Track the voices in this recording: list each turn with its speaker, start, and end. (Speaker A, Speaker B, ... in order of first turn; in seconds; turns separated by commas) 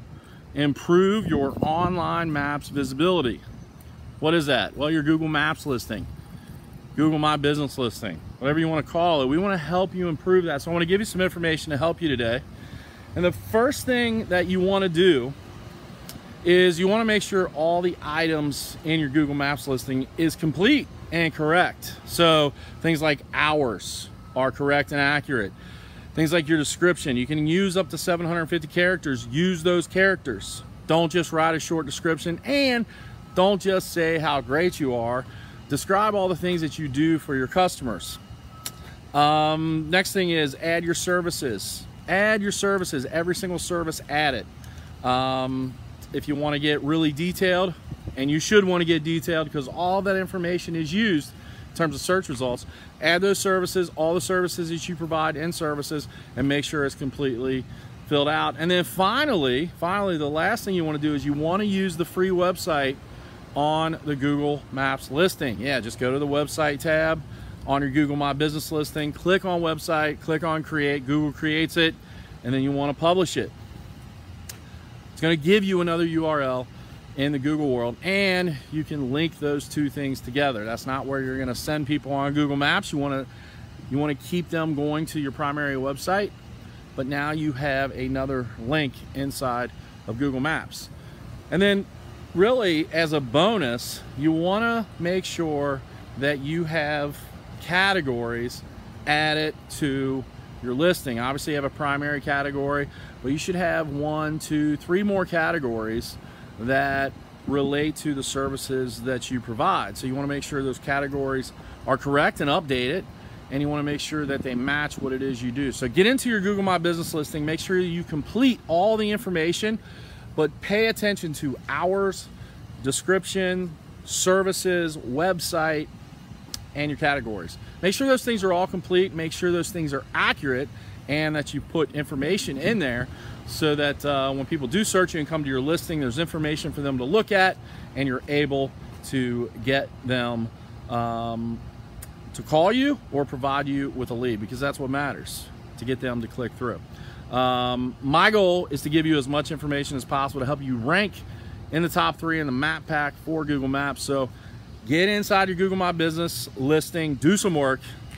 Speaker A: 0.5-3.4, Speaker A: 4.2-6.1, Speaker A: 7.0-12.4, Speaker A: 13.2-15.4, Speaker A: 16.4-25.5, Speaker A: 26.1-38.2, Speaker A: 39.1-44.5, Speaker A: 45.0-63.0, Speaker A: 63.5-73.5, Speaker A: 75.2-83.3, Speaker A: 83.9-86.3, Speaker A: 87.0-90.9, Speaker A: 91.5-119.8, Speaker A: 120.4-122.3, Speaker A: 122.8-125.9, Speaker A: 126.7-141.6, Speaker A: 142.3-154.3, Speaker A: 154.8-157.8